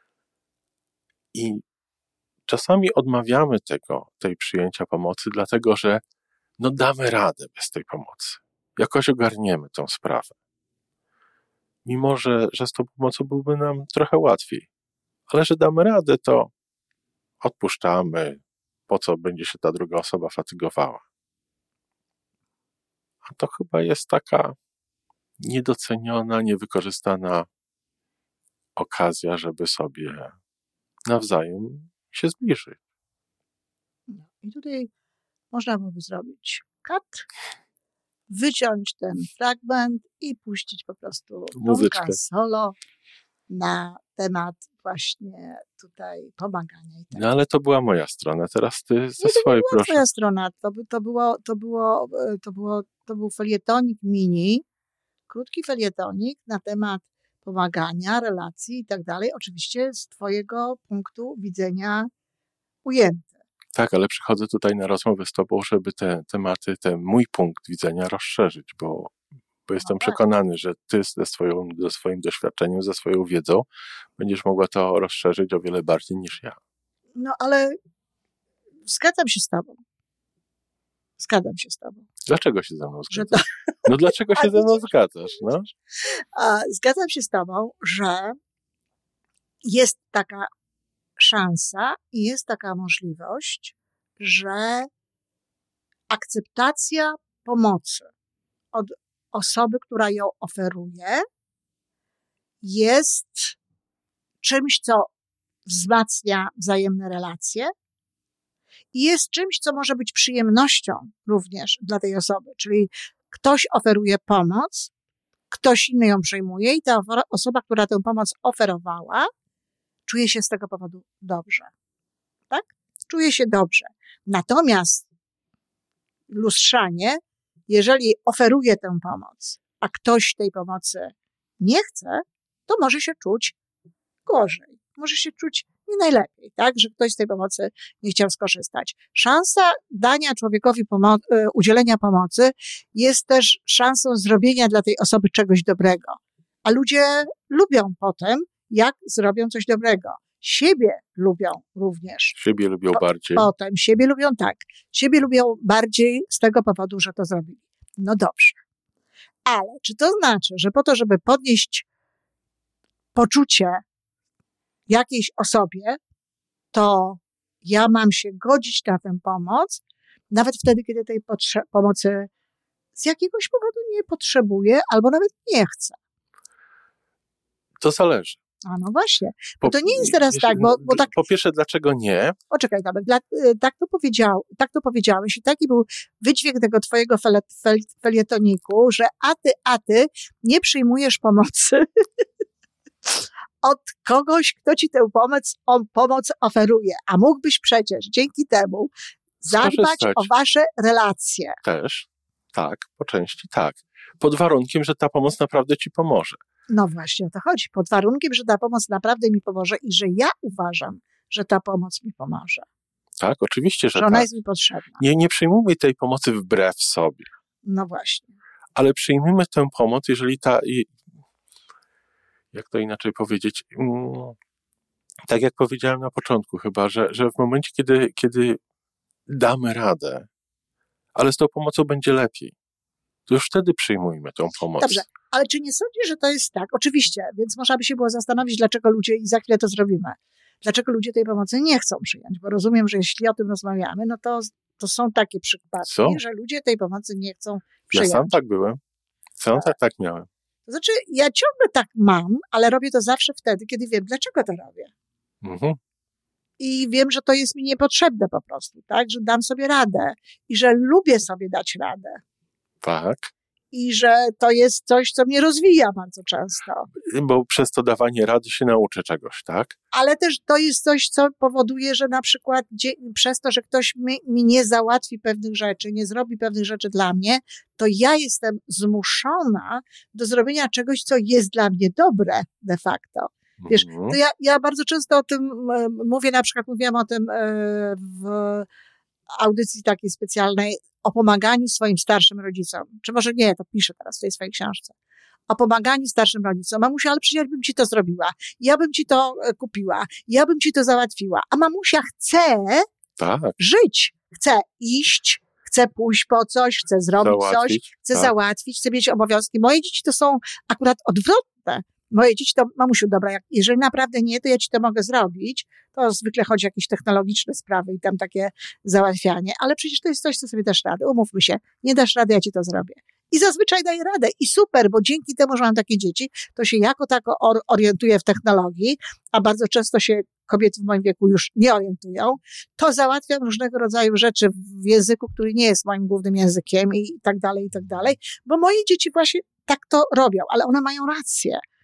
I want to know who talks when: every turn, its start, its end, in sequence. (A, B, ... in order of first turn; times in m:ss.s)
0:01.3-0:01.6 A
0:02.5-0:06.0 A
0:06.6-0:10.3 A
0:11.8-0:14.7 A
0:15.3-0:16.5 A
0:17.4-0:21.0 A
0:23.2-0:24.6 A
0:25.4-0:27.5 A
0:28.8-0:30.4 A
0:31.1-0:32.8 A
0:34.1-0:34.9 B
0:35.5-0:37.3 B
0:38.3-0:42.8 B
0:41.6-0:42.2 A
0:43.5-0:47.2 B
0:47.1-0:50.0 A
0:49.2-0:54.6 B
0:55.3-1:02.1 B
1:02.8-1:03.3 B
1:03.8-1:09.2 A
1:09.7-1:13.7 A
1:09.8-1:10.2 B
1:14.2-1:16.6 A
1:17.2-1:17.8 B
1:18.9-1:19.8 B
1:21.2-1:22.1 B
1:22.3-1:25.7 A
1:23.1-1:28.4 B
1:29.6-1:30.5 B
1:31.2-1:34.9 B
1:36.1-1:38.1 B
1:38.7-1:41.2 B
1:42.6-1:43.6 B
1:44.4-1:45.1 B
1:45.7-1:47.7 B
1:48.9-1:54.9 B
1:55.5-1:59.3 B
2:00.1-2:01.7 B
2:02.5-2:05.1 B
2:06.3-2:13.6 B
2:14.3-2:32.4 B
2:32.4-2:33.5 A
2:32.9-2:38.6 B
2:39.5-2:41.9 B
2:43.2-2:43.8 B
2:44.9-2:46.0 B
2:46.7-2:52.3 B
2:53.0-2:56.0 B
2:57.8-2:58.4 A
2:58.7-3:01.1 B
2:59.6-3:02.4 A
3:02.5-3:12.2 B
3:13.6-3:18.9 B
3:19.4-3:21.6 B
3:19.5-3:20.3 A
3:21.6-3:26.4 A
3:26.7-3:32.7 B
3:33.2-3:34.3 A
3:34.0-3:35.0 B
3:35.0-3:37.3 A
3:37.6-3:38.4 B
3:38.8-3:41.0 A
3:42.5-3:44.4 A
3:45.2-3:48.6 A
3:49.3-3:50.3 A
3:51.2-3:52.5 A
3:53.3-3:55.0 A
3:54.8-4:08.3 B
4:05.9-4:06.2 A
4:07.9-4:08.8 A
4:09.4-4:10.3 A
4:10.7-4:14.9 B
4:15.4-4:15.8 A
4:16.6-4:22.2 B
4:22.8-4:23.3 A
4:23.7-4:26.9 B
4:27.0-4:29.8 A
4:29.9-4:48.7 B
4:43.6-4:44.2 A
4:49.4-4:54.9 B
4:55.5-5:02.9 B
5:03.2-5:03.6 A
5:03.6-5:41.6 B
5:07.2-5:08.3 A